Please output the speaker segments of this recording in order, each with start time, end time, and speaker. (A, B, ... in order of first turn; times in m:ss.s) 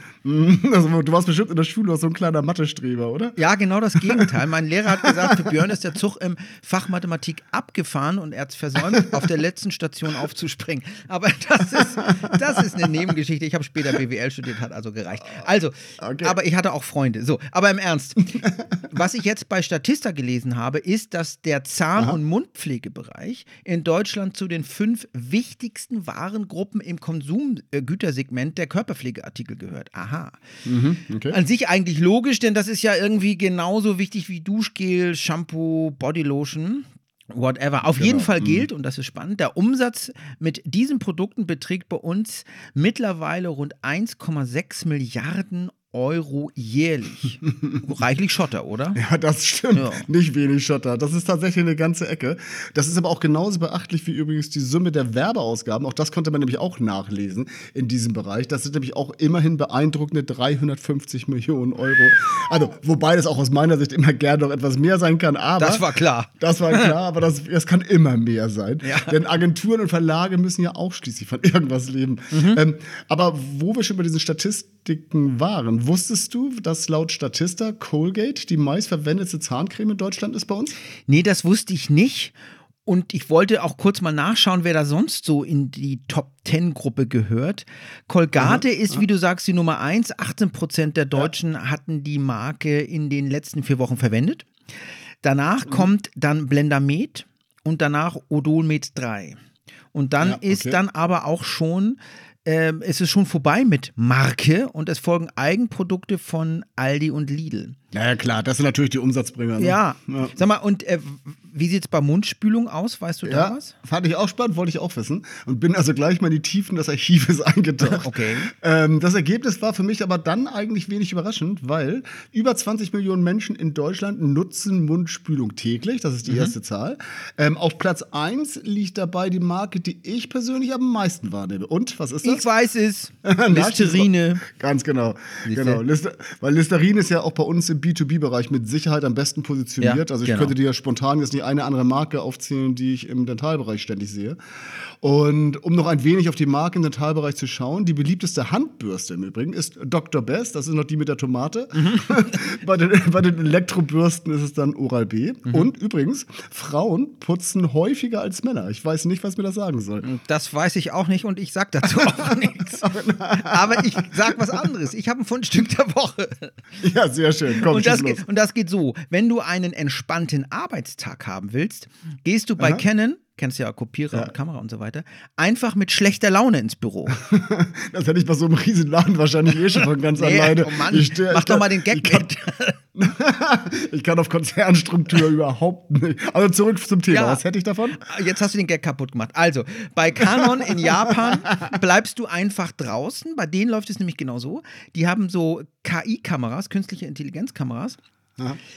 0:00.2-0:03.4 A
0:03.4-0:30.4 B
0:04.0-0:04.3 A
0:05.0-0:05.5 A
0:11.8-0:12.9 A
0:16.0-0:16.4 A
0:30.6-0:31.4 A
0:31.3-0:49.0 B
0:37.9-0:38.7 A
0:49.0-1:05.9 A
0:49.7-0:50.1 B
1:05.6-1:06.9 B
1:06.4-1:20.8 A
1:08.8-1:09.2 B
1:12.3-1:12.6 B
1:21.1-1:34.5 B
1:28.4-1:28.6 A
1:35.2-1:39.4 B
1:35.6-1:35.9 A
1:39.9-1:47.8 B
1:40.2-1:40.8 A
1:47.9-1:50.4 A
1:49.6-1:53.7 B
1:53.2-2:12.5 A
1:57.8-1:58.5 B
2:06.3-2:06.5 B
2:12.2-2:14.4 B
2:13.2-2:24.4 A
2:15.5-2:15.8 B
2:19.8-2:20.5 B
2:25.0-2:40.1 A
2:31.8-2:32.4 B
2:40.0-2:46.6 B
2:42.8-2:44.7 A
2:46.8-2:48.2 A
2:47.5-2:57.2 B
2:52.6-2:52.8 A
2:57.2-3:02.3 A
3:00.2-3:02.8 B
3:03.0-3:08.0 A
3:07.1-3:18.0 B
3:10.2-3:11.7 A